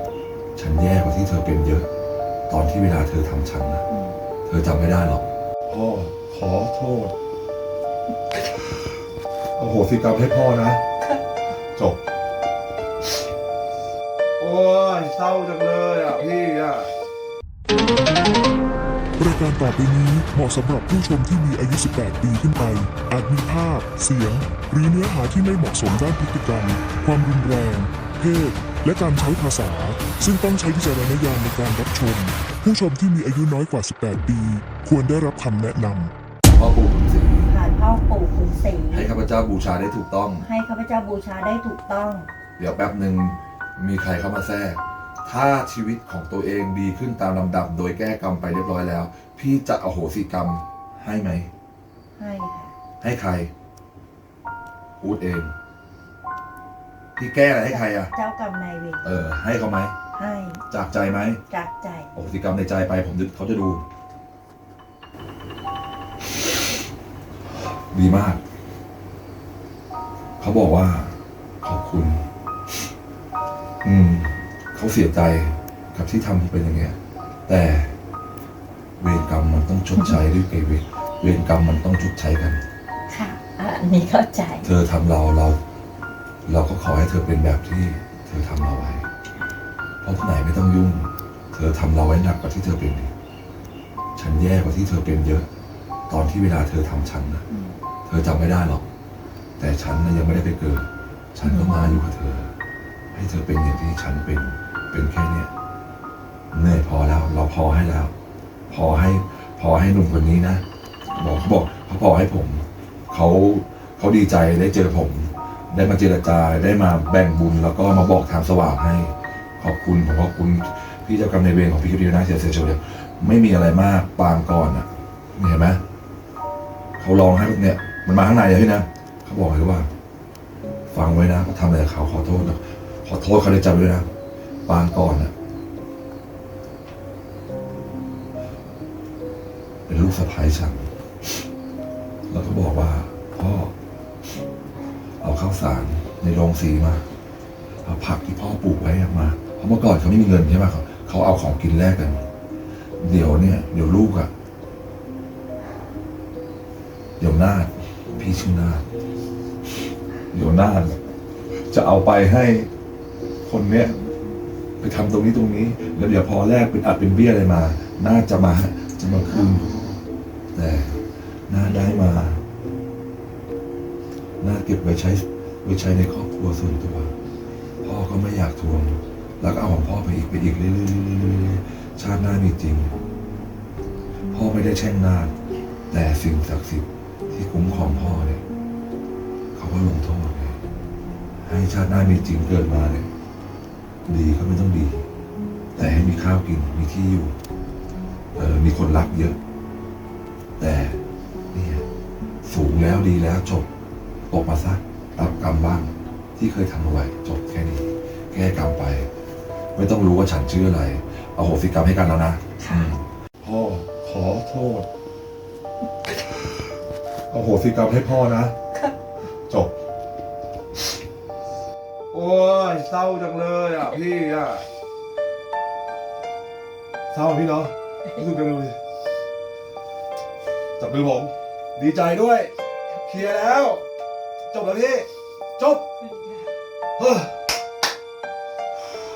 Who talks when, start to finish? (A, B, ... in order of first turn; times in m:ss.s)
0:00.6-0:01.9 A
0:02.5-0:03.9 A
0:03.9-0:04.2 B
0:04.5-0:07.2 A
0:09.6-0:10.8 A
0:11.8-0:12.0 A
0:14.4-0:16.9 A
0:19.2-0:36.1 C
0:36.5-0:37.5 A
0:37.4-0:39.1 B
0:38.9-0:40.5 A
0:40.4-0:42.3 B
0:42.6-0:51.5 A
0:52.2-0:52.7 B
0:53.0-0:53.5 A
0:55.0-0:55.5 A
0:57.2-0:58.1 A
0:57.7-0:59.1 B
0:59.0-1:00.0 A
1:00.2-1:00.6 B
1:00.7-1:01.4 A
1:01.5-1:02.1 B
1:02.1-1:03.8 A
1:07.9-1:08.4 A
1:10.4-1:12.3 A
1:13.8-1:18.0 A
1:19.0-1:22.6 A
1:23.1-1:24.7 B
1:24.6-1:25.6 A
1:26.5-1:29.1 A
1:30.0-1:33.1 A
1:34.2-1:35.5 A
1:36.1-1:37.5 A
1:37.5-1:37.8 B
1:38.1-1:38.9 A
1:39.6-1:42.5 A
1:41.4-1:42.0 B
1:43.1-1:45.5 A
1:46.5-1:48.1 A
1:48.7-2:05.8 A
2:07.0-2:09.9 A
2:10.9-2:14.1 A
2:14.7-2:15.3 A
2:19.9-2:20.9 A
2:22.3-2:23.7 A
2:25.2-2:27.1 A
2:27.8-2:32.2 A
2:33.0-2:34.3 A
2:37.2-2:38.9 A
2:40.3-2:41.0 A
2:41.6-2:42.7 A
2:43.4-2:43.9 A
2:44.8-2:49.8 A
2:50.5-2:52.4 A
2:54.4-2:57.1 A
2:57.8-3:03.0 A
3:04.3-3:05.3 A
3:05.9-3:08.4 A
3:09.6-3:10.6 A
3:11.4-3:13.1 A
3:14.1-3:15.0 A
3:15.8-3:17.4 A
3:18.4-3:19.4 A
3:20.6-3:21.0 A
3:21.5-3:21.8 A
3:22.4-3:23.7 A
3:24.3-3:29.1 A
3:29.8-3:34.9 A
3:32.6-3:32.9 B
3:37.3-3:38.6 A
3:42.1-3:44.6 A
3:47.1-3:48.8 A
3:50.8-3:52.5 A
3:53.1-3:53.8 A
3:54.5-3:55.9 A
3:56.0-3:56.5 B
3:57.0-3:57.4 A